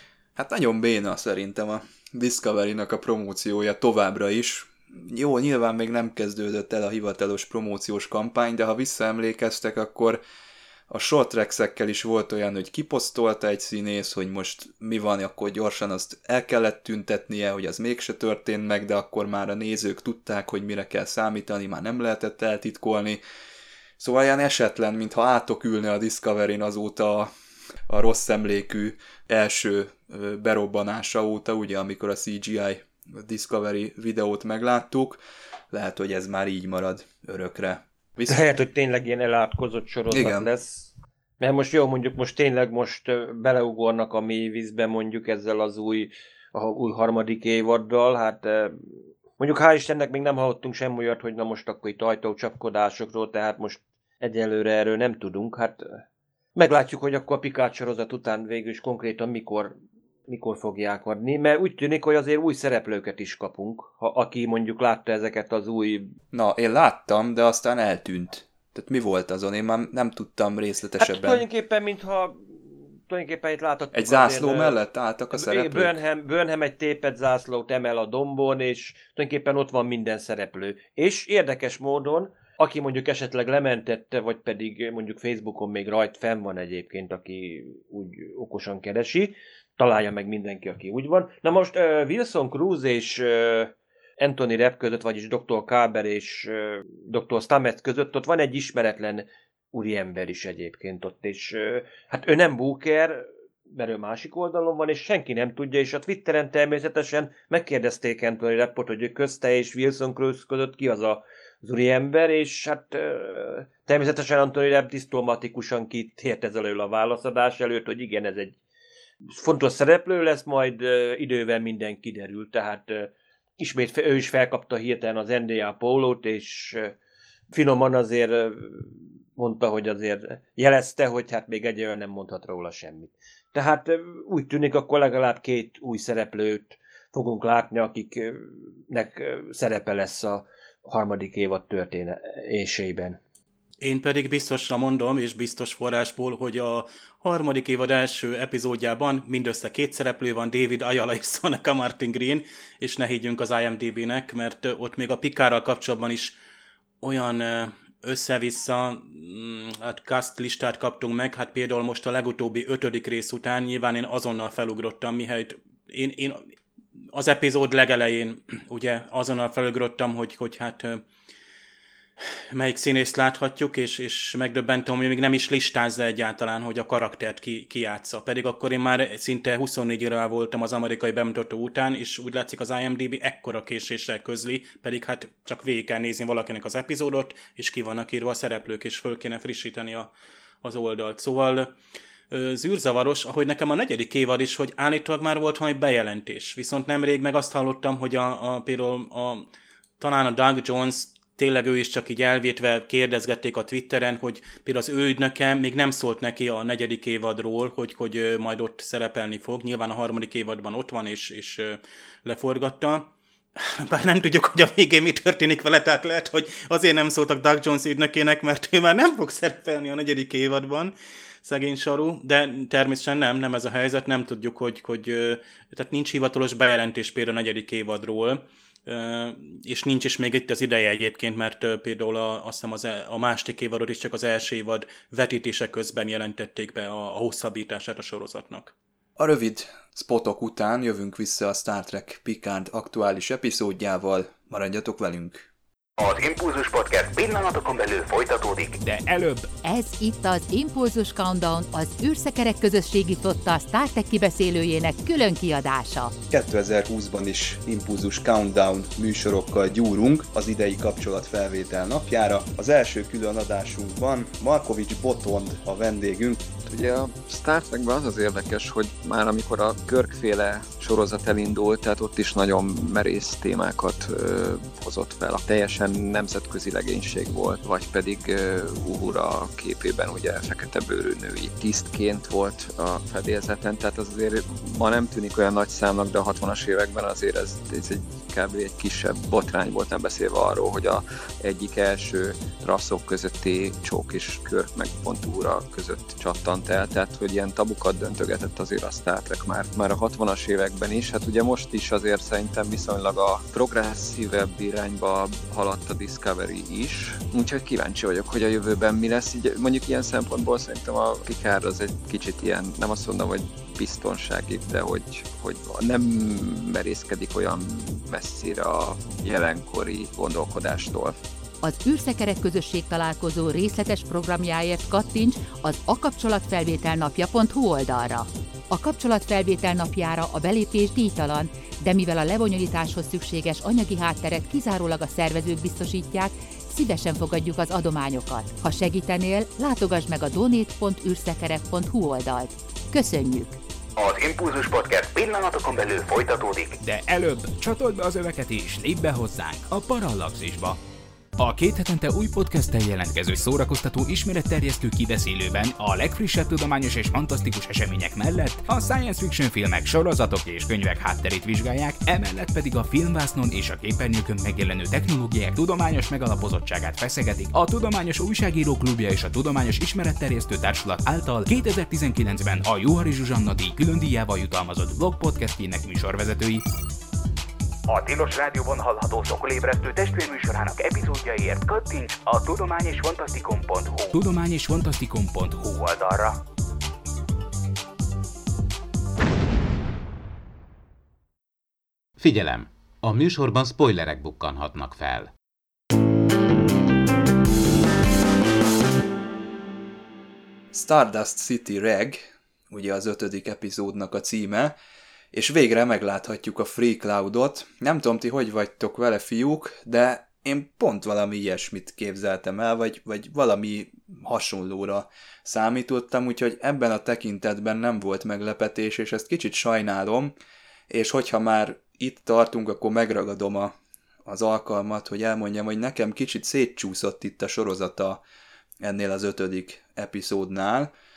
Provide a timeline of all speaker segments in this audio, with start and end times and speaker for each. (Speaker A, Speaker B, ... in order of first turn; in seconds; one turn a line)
Speaker A: 0.4-10.2
Speaker A: 10.9-23.2
Speaker A: 24.0-27.3
Speaker A: 27.9-38.4
Speaker B: 38.3-48.8
Speaker A: 40.1-40.5
Speaker B: 49.4-56.0
Speaker B: 56.6-59.8
Speaker B: 60.3-66.2
Speaker A: 66.3-71.5
Speaker B: 71.0-74.8
Speaker A: 73.9-76.0
Speaker B: 75.3-118.6
Speaker B: 119.3-127.0
Speaker B: 127.5-143.2
Speaker C: 143.8-156.3
Speaker C: 157.0-166.5
Speaker C: 167.1-171.0
Speaker C: 172.5-190.1
Speaker C: 190.6-191.7
Speaker C: 192.3-199.5
Speaker C: 200.0-220.9
Speaker C: 221.4-238.7
Speaker A: 239.2-245.5
Speaker D: 246.0-248.8
Speaker E: 248.8-249.5
Speaker F: 249.6-256.1
Speaker A: 256.3-266.4
Speaker G: 266.7-321.2
Speaker F: 321.6-343.6
Speaker D: 344.0-346.8
Speaker E: 346.8-350.8
Speaker E: 351.4-376.6
Speaker E: 377.9-386.4
Speaker H: 392.2-395.3
Speaker A: 400.7-404.8
Speaker A: 405.3-420.4
Speaker A: 420.9-423.7
Speaker A: 424.3-428.2
Speaker A: 428.8-430.9